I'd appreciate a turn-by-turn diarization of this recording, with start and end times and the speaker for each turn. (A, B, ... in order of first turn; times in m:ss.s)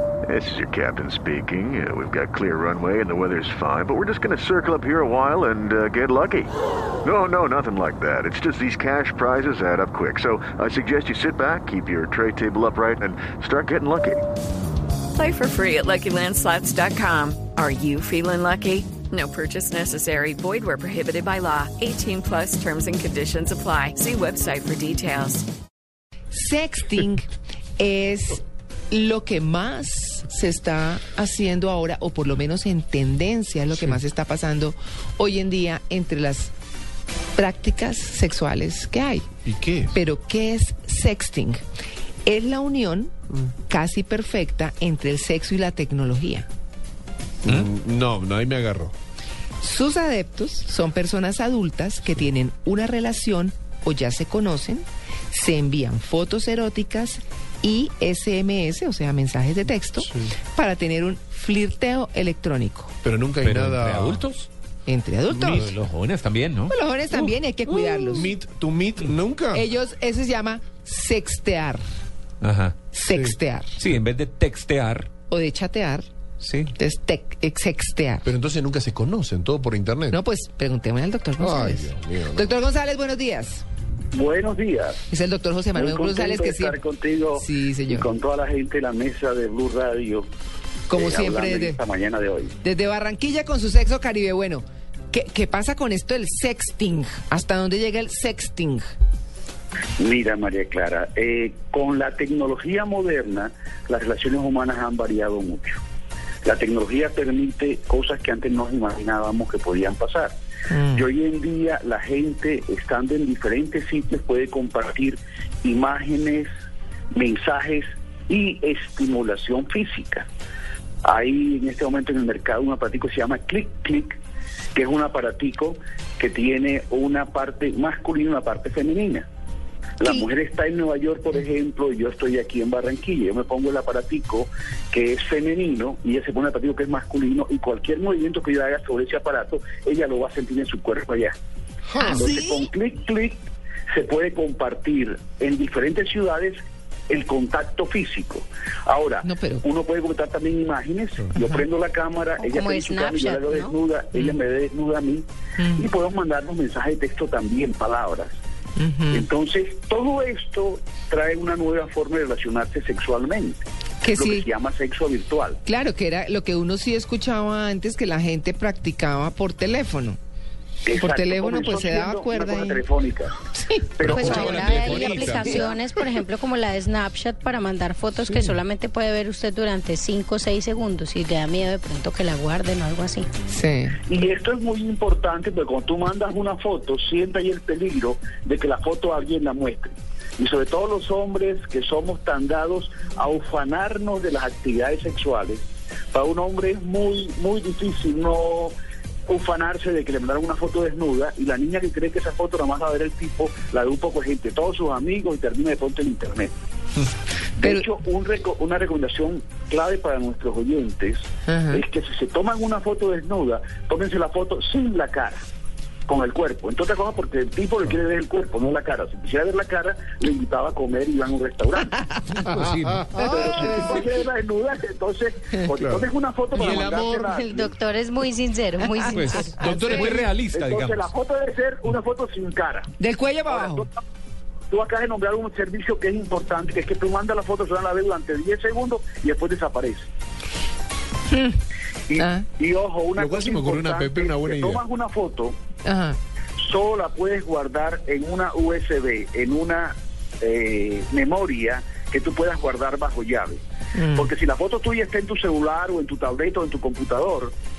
0:00.3-0:14.3 A
0:15.1-0:25.4 B
0:26.3-0:27.3 C
0:27.8-0:36.5 C
0:37.4-0:39.3 C
0:39.5-0:40.0 D
0:39.9-0:41.6 C
0:42.2-0:43.1 C
0:43.7-0:46.5 C
0:47.4-0:48.9 D
0:49.6-1:03.0 C
1:00.0-1:00.3 D
1:03.0-1:04.2 D
1:03.4-1:04.5 E
1:04.9-1:05.7 C
1:05.4-1:06.7 E
1:06.7-1:08.3 C
1:07.1-1:09.7 D
1:09.5-1:11.8 C
1:12.4-1:12.8 E
1:12.9-1:13.7 C
1:13.1-1:13.4 D
1:13.8-1:15.1 E
1:15.3-1:16.1 C
1:16.4-1:16.7 E
1:16.7-1:18.2 C
1:18.2-1:20.2 D
1:20.1-1:23.6 C
1:21.4-1:22.5 D
1:24.1-1:25.0 F
1:25.1-1:26.8 C
1:25.7-1:30.3 F
1:27.4-1:28.1 C
1:30.9-1:31.8 C
1:30.9-1:32.6 F
1:32.6-1:38.8 C
1:40.0-1:45.8 F
1:46.4-1:50.3 F
1:50.7-1:51.0 C
1:50.9-1:56.5 F
1:57.1-2:00.3 F
2:01.0-2:04.2 F
2:04.7-2:09.2 F
2:10.0-2:21.3 F
2:21.9-2:22.2 D
2:22.0-2:22.7 C
2:22.1-2:23.4 F
2:23.9-2:35.2 F
2:29.2-2:29.6 C
2:31.4-2:31.6 C
2:32.4-2:33.8 G
2:35.6-2:35.9 C
2:35.8-2:38.3 F
2:38.8-2:39.2 C
2:39.1-2:45.6 F
2:44.0-2:44.5 C
2:45.7-2:50.2 C
2:50.9-2:53.3 F
2:51.0-2:52.8 C
2:54.0-2:55.2 F
2:54.0-2:55.7 D
2:54.1-3:03.3 G
2:55.4-2:55.6 C
2:58.3-2:58.6 D
3:03.5-3:04.0 C
3:04.0-3:18.7 F
3:19.3-3:26.5 F
3:27.6-3:35.4 F
3:31.5-3:31.8 C
3:36.1-3:41.9 F
3:42.4-3:43.1 E
3:42.6-3:43.0 D
3:43.1-3:44.1 C
3:43.1-3:47.7 F
3:45.8-3:47.3 D
3:47.2-3:49.7 G
3:49.0-3:50.2 C
3:49.1-3:51.1 E
3:50.2-3:52.9 F
3:53.0-3:53.9 C
3:53.5-3:53.9 F
3:54.7-4:00.1 F
4:02.1-4:05.6 F
4:02.2-4:02.4 C
4:03.2-4:04.8 D
4:05.8-4:06.2 C
4:06.6-4:13.6 F
4:14.0-4:14.3 C
4:14.2-4:17.5 F